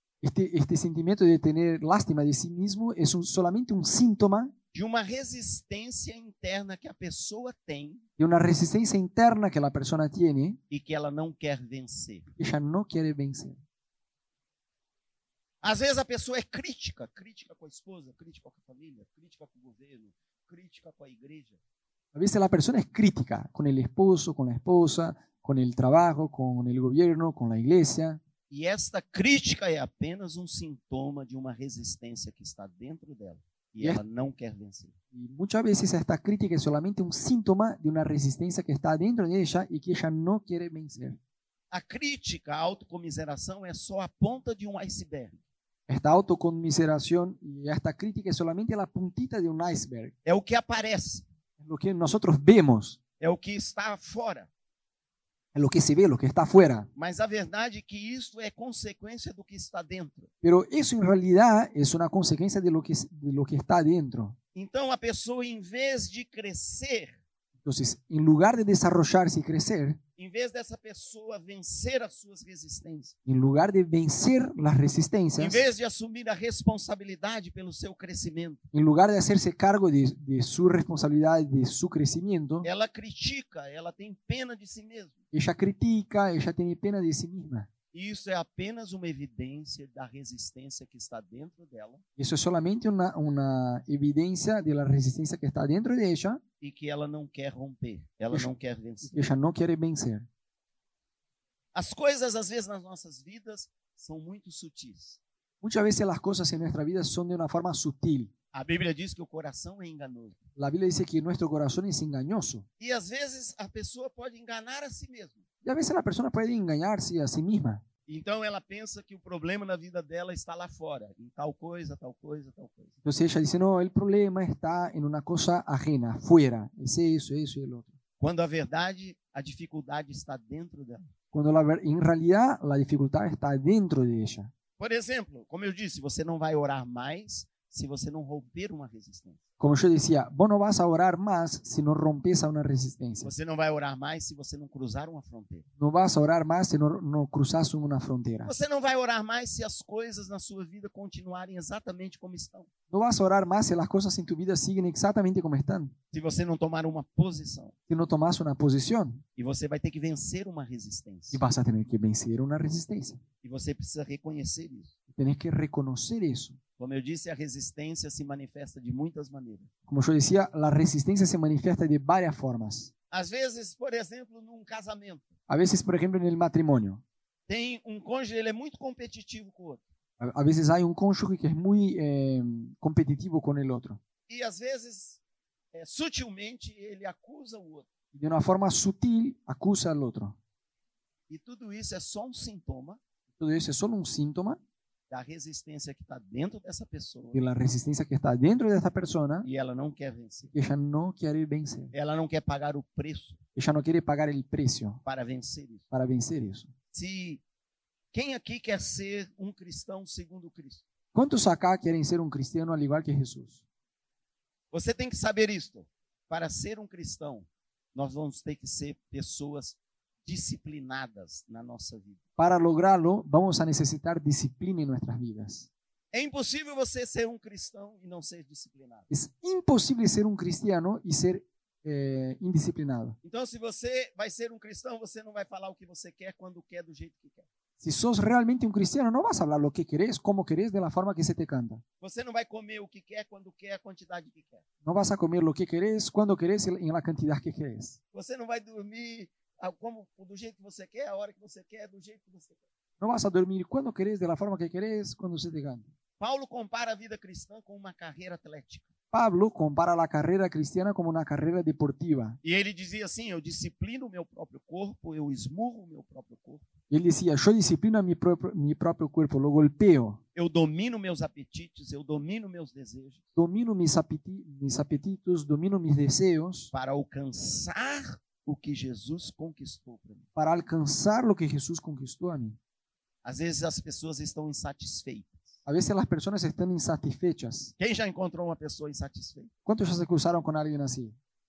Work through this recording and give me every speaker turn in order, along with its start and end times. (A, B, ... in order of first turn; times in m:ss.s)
0:00.2-0:04.5 A
0:04.7-0:08.0 B
0:08.2-0:10.6 A
0:10.7-0:12.3 B
0:12.4-0:13.6 A
0:15.6-0:21.6 B
0:22.1-0:28.2 A
0:28.5-0:34.9 B
0:35.1-0:41.2 A
0:41.7-0:45.4 B
0:45.9-0:50.1 A
0:50.2-0:51.3 B
0:51.6-0:53.0 A
0:53.2-0:54.5 B
0:55.5-0:56.9 A
0:57.0-1:00.3 B
1:00.4-1:04.4 A
1:04.6-1:07.2 B
1:07.6-1:10.0 A
1:10.2-1:13.2 B
1:13.3-1:15.6 A
1:15.4-1:18.6 B
1:18.7-1:22.7 A
1:22.6-1:25.2 B
1:25.3-1:27.7 A
1:27.9-1:32.0 B
1:32.2-1:36.4 A
1:36.6-1:39.3 B
1:39.0-1:40.3 A
1:41.7-1:45.2 B
1:45.6-1:48.3 A
1:48.5-1:50.4 B
1:50.6-1:52.7 A
1:52.8-1:55.4 B
1:55.6-1:57.8 A
1:58.1-2:02.9 B
2:03.0-2:07.9 A
2:08.2-2:11.1 B
2:11.3-2:14.5 A
2:14.8-2:19.4 B
2:19.6-2:23.3 A
2:23.2-2:25.7 B
2:25.8-2:28.5 A
2:28.4-2:32.7 B
2:32.9-2:35.9 A
2:36.1-2:37.7 B
2:37.9-2:39.2 A
2:39.4-2:41.4 B
2:41.3-2:43.2 A
2:43.4-2:44.9 B
2:45.1-2:46.6 A
2:46.8-2:49.7 B
2:49.9-2:52.9 A
2:53.1-2:55.3 B
2:55.5-2:57.0 A
2:57.5-2:59.8 B
3:00.2-3:04.0 A
3:04.3-3:05.2 B
3:05.7-3:07.9 B
3:08.1-3:10.4 A
3:11.3-3:13.0 B
3:13.4-3:14.6 A
3:15.1-3:17.4 B
3:17.3-3:19.5 A
3:19.4-3:20.5 B
3:20.5-3:21.9 A
3:21.9-3:23.4 B
3:23.6-3:25.0 A
3:25.0-3:25.8 B
3:25.9-3:26.7 A
3:26.9-3:27.4 B
3:28.1-3:30.8 B
3:31.1-3:33.6 A
3:34.7-3:42.2 B
3:42.4-3:45.7 A
3:46.1-3:49.1 B
3:49.1-3:53.2 A
3:53.2-3:57.5 B
3:57.8-4:01.8 A
4:02.0-4:04.6 B
4:04.8-4:08.0 A
4:08.1-4:12.6 B
4:13.0-4:15.9 A
4:16.2-4:18.9 B
4:19.1-4:22.4 A
4:22.4-4:26.7 B
4:26.9-4:30.2 A
4:30.4-4:33.2 B
4:33.4-4:36.7 A
4:36.7-4:40.2 B
4:40.4-4:42.6 A
4:43.2-4:45.5 B
4:45.7-4:47.7 A
4:47.8-4:49.5 B
4:49.7-4:51.2 A